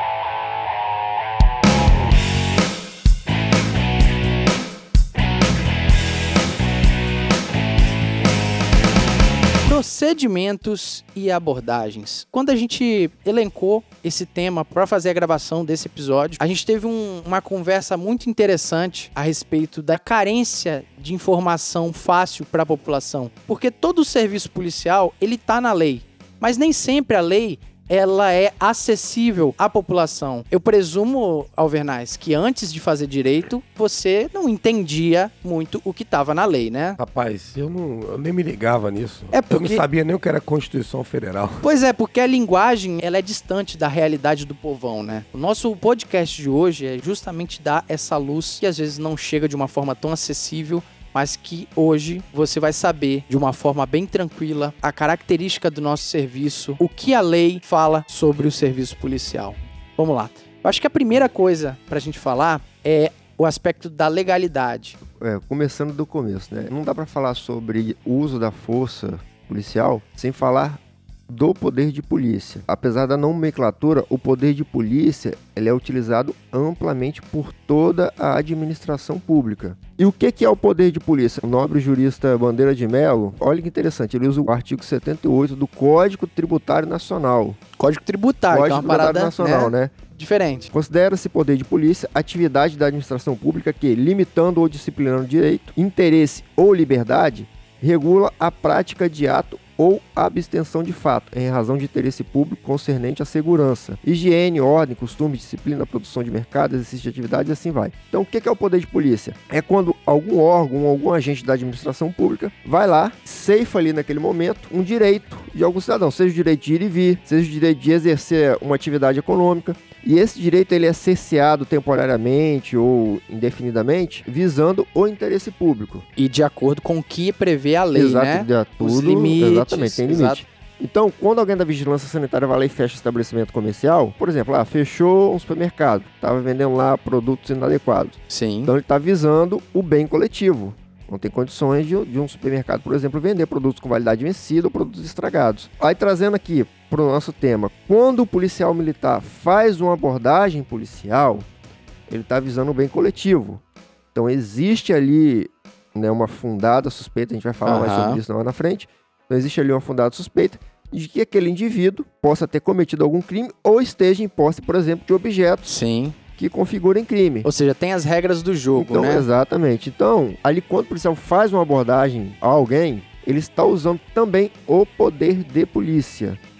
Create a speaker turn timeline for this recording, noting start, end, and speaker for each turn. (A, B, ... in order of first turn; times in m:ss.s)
0:09.6-0:37.0 A
0:37.0-0:41.6 B
0:39.3-0:39.8 A
0:41.6-1:05.0 A
1:05.1-1:27.6 C
1:27.8-1:30.7 A
1:28.5-1:29.9 C
1:30.7-2:06.0 C
2:06.2-2:10.4 A
2:07.9-2:31.5 C
2:18.3-2:18.7 A
2:32.1-2:33.6 C
2:34.1-2:45.7 C
2:37.6-2:38.2 A
2:45.6-2:46.2 A
2:46.4-2:47.5 C
2:47.4-2:49.2 A
2:48.7-2:56.4 C